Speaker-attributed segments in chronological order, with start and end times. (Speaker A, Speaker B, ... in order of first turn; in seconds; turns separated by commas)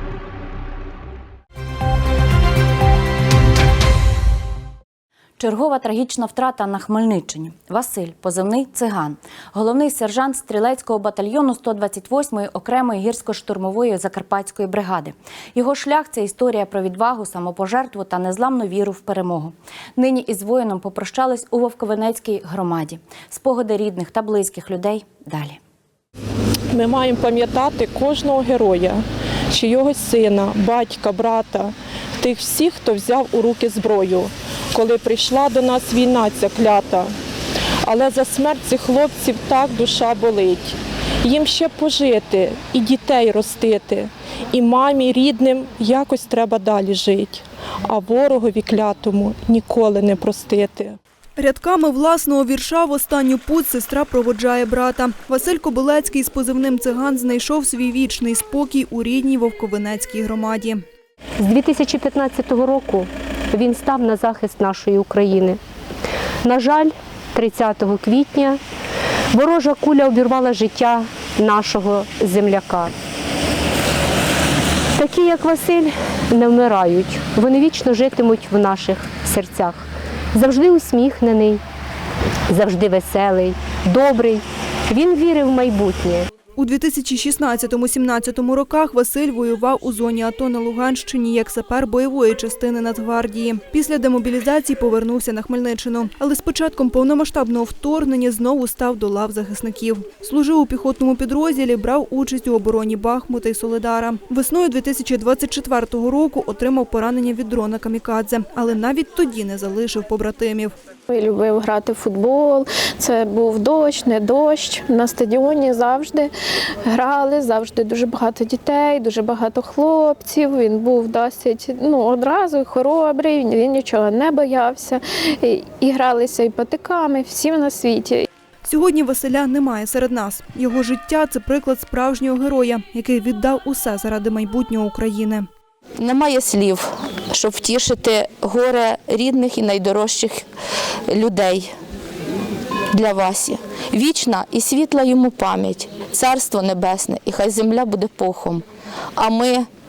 Speaker A: 5.4-25.6, Speaker B: 26.7-37.1, Speaker B: 37.9-51.0, Speaker C: 51.4-60.8, Speaker D: 61.4-65.6, Speaker D: 66.4-68.6, Speaker D: 69.3-72.9, Speaker D: 75.0-81.6, Speaker D: 82.5-86.3, Speaker C: 86.6-110.7, Speaker E: 111.1-116.3, Speaker E: 116.9-128.3, Speaker C: 128.7-135.4, Speaker F: 136.0-140.5, Speaker F: 141.1-141.7, Speaker F: 142.9-148.6, Speaker F: 149.2-149.7